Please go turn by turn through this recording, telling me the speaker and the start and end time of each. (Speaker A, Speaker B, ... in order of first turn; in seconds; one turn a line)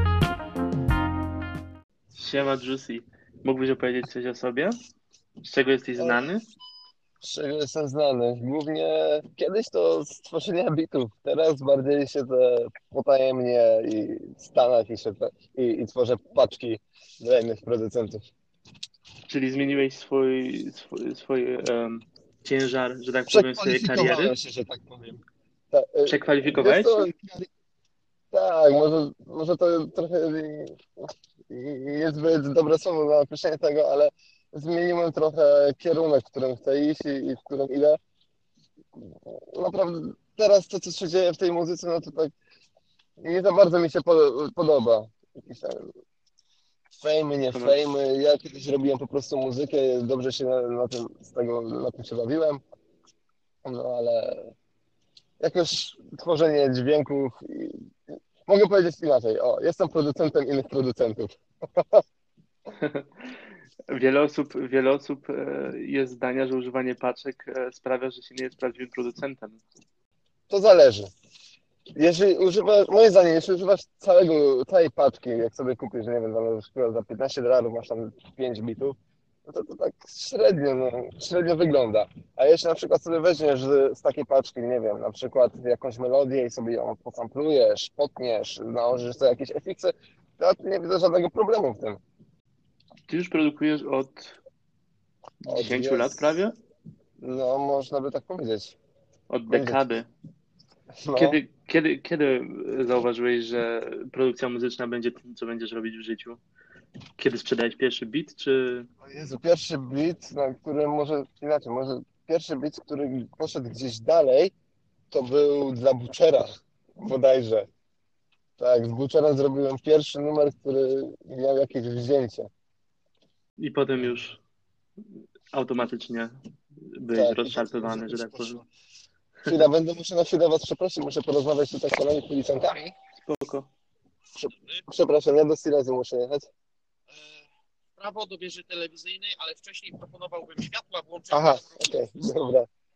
Speaker A: 2.1-4.8
Speaker A: 5.4-6.4
Speaker B: 6.0-6.2
Speaker B: 7.2-18.3
Speaker A: 19.3-24.3
Speaker B: 23.3-27.5
Speaker A: 26.1-27.1
Speaker B: 28.3-38.0
Speaker B: 39.0-42.3
Speaker B: 43.2-45.9
Speaker B: 47.0-52.6
Speaker B: 53.6-54.5
Speaker B: 55.4-62.0
Speaker A: 62.8-63.1
Speaker A: 63.9-69.6
Speaker B: 70.5-71.1
Speaker B: 72.0-92.0
Speaker A: 93.1-94.4
Speaker A: 95.4-96.5
Speaker B: 95.5-96.3
Speaker B: 97.2-98.8
Speaker A: 99.3-100.1
Speaker B: 99.5-99.8
Speaker B: 101.0-101.4
Speaker A: 101.2-106.4
Speaker A: 107.2-108.9
Speaker B: 109.0-114.5
Speaker B: 115.1-117.7
Speaker B: 118.6-122.5
Speaker A: 123.6-124.4
Speaker A: 125.5-126.4
Speaker A: 126.9-128.6
Speaker B: 127.1-128.6
Speaker B: 129.4-132.9
Speaker A: 133.2-133.7
Speaker B: 134.3-136.5
Speaker C: 138.0-141.9
Speaker B: 141.3-142.7